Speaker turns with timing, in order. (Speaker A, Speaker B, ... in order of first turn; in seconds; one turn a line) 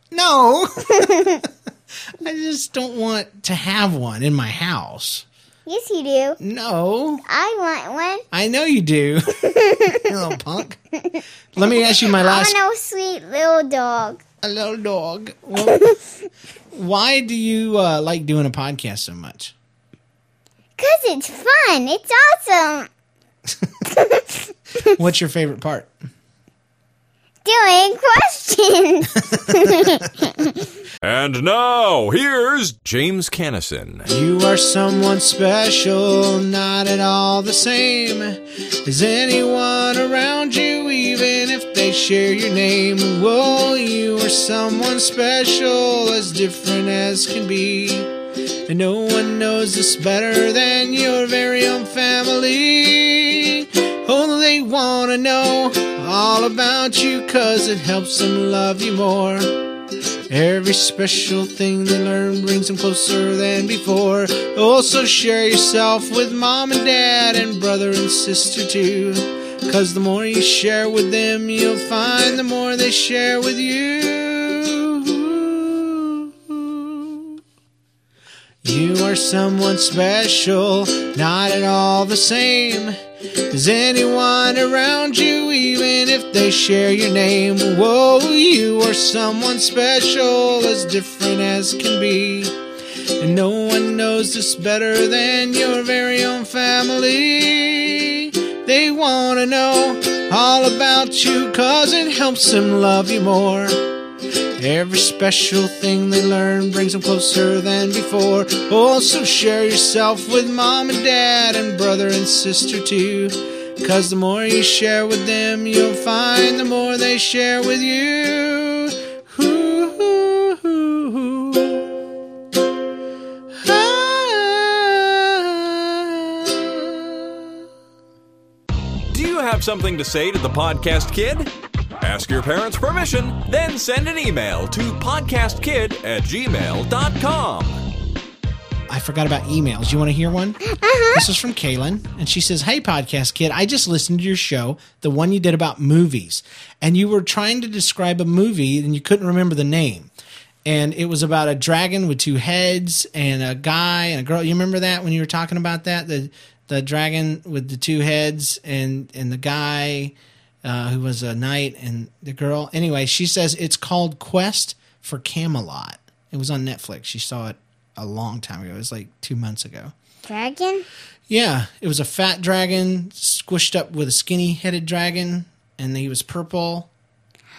Speaker A: 0.1-1.1
Speaker B: 0.9-1.4
Speaker A: 2.2-5.3
Speaker B: 5.7-6.4
Speaker A: 6.4-7.2
Speaker B: 7.2-8.2
Speaker A: 8.3-10.8
Speaker B: 9.4-10.1
Speaker B: 10.9-14.2
Speaker A: 11.6-12.6
Speaker A: 14.4-15.8
Speaker B: 15.6-16.0
Speaker A: 16.7-19.5
Speaker B: 20.8-22.9
Speaker B: 23.8-25.0
Speaker A: 24.9-25.9
Speaker B: 27.4-30.6
Speaker A: 29.3-30.0
Speaker C: 31.0-34.1
Speaker A: 34.1-48.1
Speaker A: 48.7-59.7
Speaker A: 60.3-77.4
Speaker A: 78.6-83.0
Speaker A: 83.5-92.5
Speaker A: 93.2-103.9
Speaker A: 104.6-121.9
Speaker A: 123.5-127.5
Speaker C: 129.1-137.8
Speaker A: 138.9-140.6
Speaker B: 140.6-141.2
Speaker A: 141.1-150.1
Speaker A: 150.6-169.9
Speaker B: 170.2-170.9
Speaker A: 171.3-176.9